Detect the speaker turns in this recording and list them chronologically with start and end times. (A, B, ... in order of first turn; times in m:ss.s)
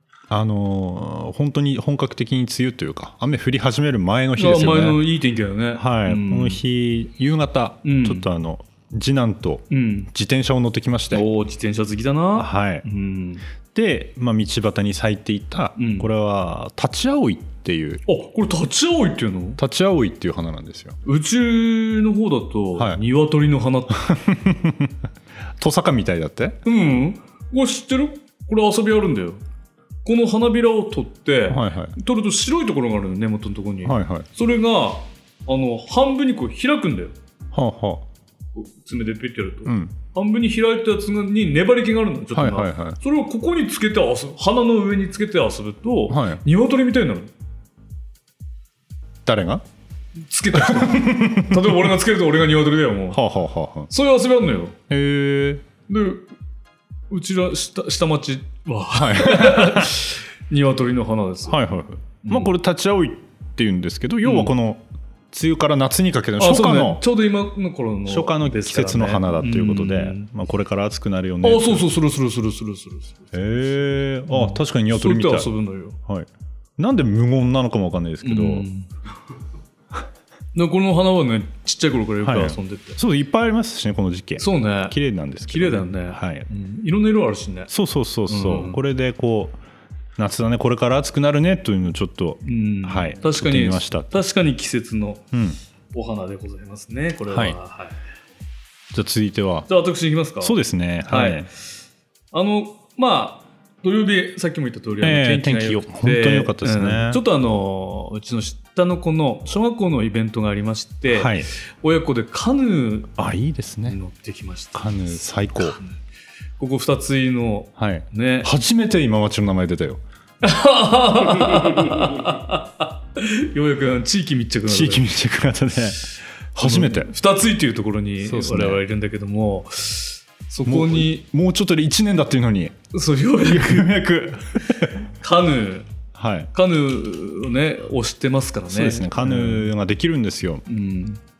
0:00.3-0:05.0 A
0:04.4-0:06.6 B
0:05.8-0:11.3 A
0:07.8-0:08.3 B
0:09.7-0:10.1 B
0:11.1-0:13.5 B
0:12.4-0:12.8 A
0:13.7-0:18.0 A
0:15.8-0:16.1 B
0:18.1-0:19.6 B
0:19.6-0:21.0 A
0:21.0-0:24.1 B
0:22.8-0:23.0 A
0:24.0-0:25.0 A
0:25.6-0:26.6 A
0:26.6-0:29.4 B
0:30.0-0:37.2 B
0:31.5-0:32.0 A
0:33.8-0:34.3 A
0:37.5-0:38.1 A
0:38.5-0:47.3 B
0:39.7-0:40.0 A
0:42.3-0:43.0 A
0:46.1-0:46.4 A
0:49.2-0:49.6 A
0:50.2-0:53.2 B
0:50.6-0:51.8 A
0:53.1-0:53.9 A
0:53.9-0:54.8 B
0:54.9-0:55.7 A
0:55.9-0:56.3 B
0:57.1-1:01.6 B
0:58.9-1:00.0 A
1:01.5-1:07.0 A
1:02.2-1:02.5 B
1:04.2-1:04.5 B
1:06.4-1:10.3 B
1:08.1-1:11.9 A
1:11.4-1:16.0 B
1:13.3-1:15.5 A
1:16.0-1:18.7 A
1:18.2-1:18.9 B
1:20.5-1:23.0 B
1:22.2-1:26.5 A
1:24.4-1:25.0 B
1:25.5-1:27.7 B
1:27.7-1:29.6 A
1:28.3-1:28.8 B
1:30.2-1:34.2 A
1:32.4-1:35.3 B
1:35.3-1:35.6 A
1:35.9-1:38.0 B
1:37.3-1:37.6 A
1:38.9-1:39.7 A
1:39.7-1:41.5 B
1:40.4-1:41.5 A
1:42.3-1:53.1 B
1:45.0-1:47.2 A
1:51.1-1:51.5 A
1:53.2-1:54.0 A
1:53.8-1:56.0 B
1:54.7-1:55.8 A
1:56.6-1:58.5 B
1:57.8-2:00.0 A
2:00.4-2:05.0 B
2:04.7-2:07.1 A
2:06.6-2:11.2 B
2:08.2-2:08.8 A
2:10.6-2:12.8 A
2:12.9-2:13.9 B
2:13.4-2:15.0 A
2:15.2-2:15.9 B
2:16.1-2:16.5 A
2:16.5-2:19.7 B
2:18.7-2:20.6 A
2:20.7-2:21.2 B